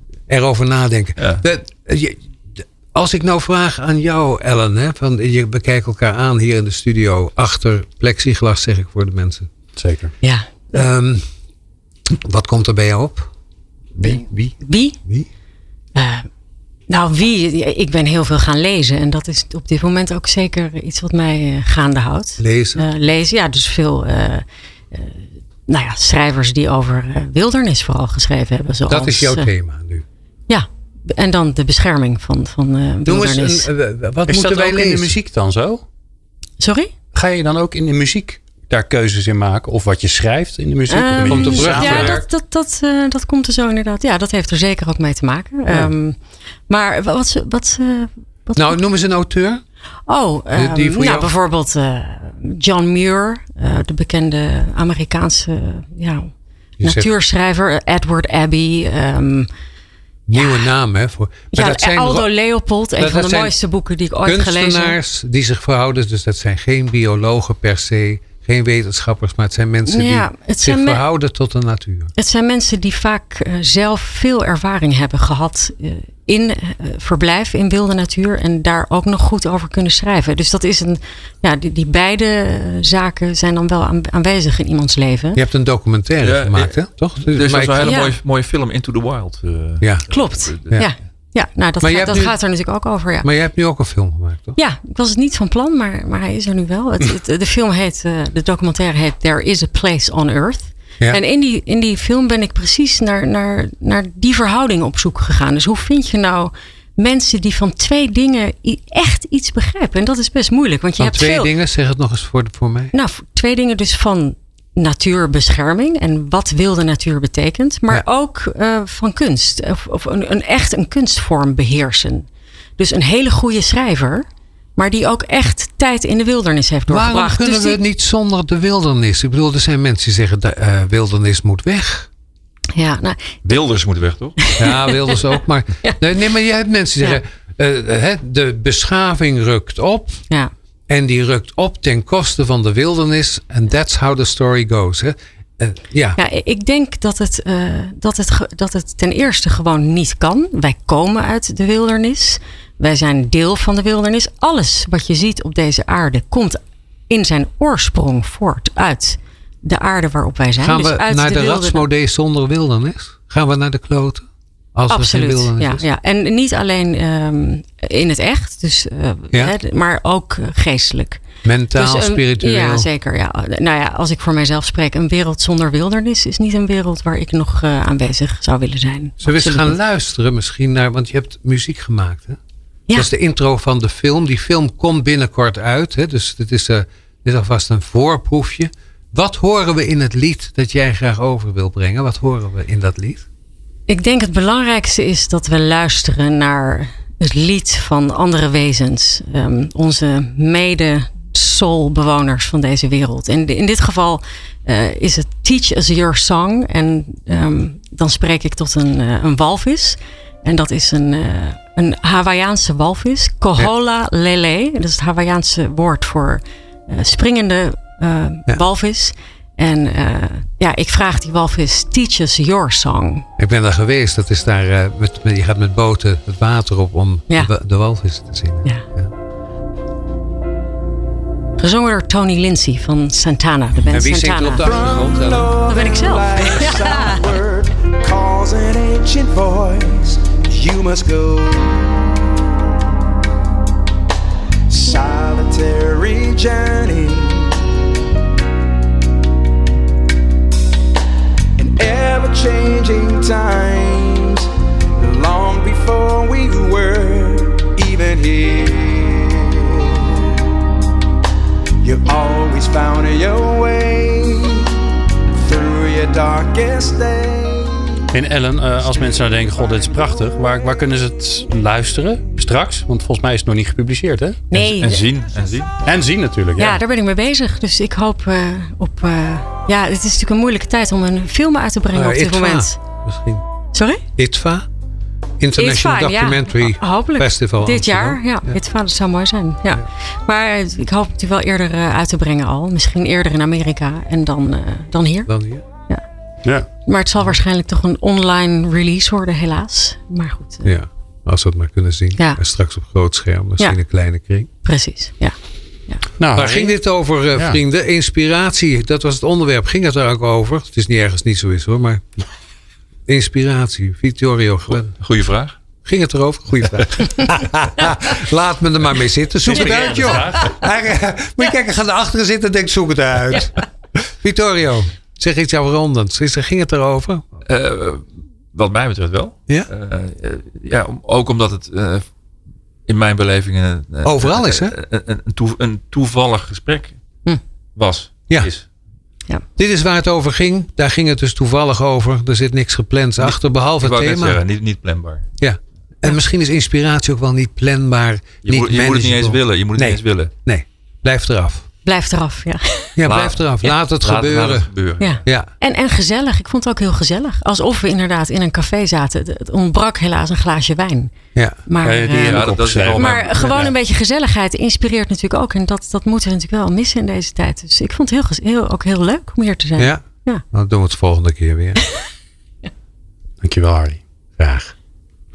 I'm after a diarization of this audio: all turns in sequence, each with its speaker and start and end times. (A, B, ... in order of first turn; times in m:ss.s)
0:00.3-0:09.5 A
0:01.2-0:01.4 B
0:09.8-0:10.1 C
0:10.2-0:10.5 D
0:10.7-0:11.2 A
0:12.1-0:13.3 A
0:14.0-0:15.3 A
0:14.0-0:15.0 D
0:15.9-0:16.3 D
0:16.9-0:29.5 D
0:22.4-0:22.9 A
0:28.9-0:30.0 A
0:30.5-0:33.7 D
0:33.0-0:35.2 A
0:34.3-0:35.8 C
0:36.6-0:36.9 D
0:37.1-0:42.2 C
0:40.9-0:46.2 D
0:41.2-0:42.3 A
0:46.7-0:48.8 D
0:48.6-0:49.6 A
0:50.1-0:56.3 D
0:50.5-0:51.3 A
0:56.8-0:57.1 A
0:56.8-0:59.5 D
1:00.3-1:02.3 A
1:00.3-1:00.7 D
1:01.5-1:05.0 D
1:03.0-1:03.5 A
1:04.2-1:12.1 A
1:09.9-1:11.0 D
1:12.2-1:25.4 D
1:25.3-1:28.0 A
1:26.2-1:30.8 B
1:27.8-1:28.1 D
1:29.8-1:30.0 A
1:30.1-1:33.3 D
1:30.6-1:30.9 A
1:31.8-1:32.4 A
1:33.2-1:34.6 A
1:34.6-1:51.5 D
1:51.0-1:52.9 A
1:52.9-2:02.3 D
2:02.8-2:04.2 D
2:04.8-2:07.8 D
2:06.9-2:12.1 A
2:12.7-2:13.4 D
2:13.4-2:14.4 B
2:14.4-2:16.0 D
2:14.6-2:20.2 A
2:20.9-2:26.2 A
2:26.2-2:41.9 D
2:40.6-2:45.8 A
2:44.9-2:51.2 D
2:51.4-2:52.9 A
2:51.7-2:59.8 D
2:59.2-3:02.4 A
3:02.9-3:13.2 A
3:13.9-3:43.3 D
3:43.4-3:49.1 A
3:51.6-3:54.7 D
3:53.9-3:55.5 A
3:54.6-4:02.1 E
3:55.7-3:57.2 D
4:04.7-4:07.7 E
4:11.6-4:20.2 E
4:21.8-4:28.1 E
4:28.1-4:34.4 C
4:34.5-4:35.0 D
4:34.5-4:35.7 B
4:35.8-4:36.8 C
4:36.6-4:42.8 D
4:41.9-4:43.4 A
4:43.7-4:44.0 D
4:44.2-4:44.6 A
4:45.4-4:48.5 A
4:45.6-4:55.3 D
4:55.3-4:55.6 A
4:56.9-5:00.7 D
5:00.6-5:04.5 A
5:04.6-5:05.3 D
5:06.2-5:06.7 C
5:06.3-5:12.2 A
5:13.1-5:14.9 A
5:14.7-5:15.6 B
5:15.8-5:27.2 A
5:19.4-5:20.6 C
5:27.4-5:32.0 B
5:32.9-5:37.0 B
5:34.0-5:34.7 A
5:37.8-5:38.6 B
5:39.6-5:44.4 A
5:43.2-5:45.2 B
5:45.4-5:51.7 A
5:48.4-5:50.3 B
5:51.8-5:53.0 D
5:53.0-5:54.7 A
5:53.0-5:55.2 B
5:55.0-6:01.1 D
6:01.7-6:10.4 D
6:01.8-6:03.7 C
6:02.2-6:03.7 B
6:09.8-6:11.8 A
6:13.4-6:14.0 C
6:14.4-6:14.7 A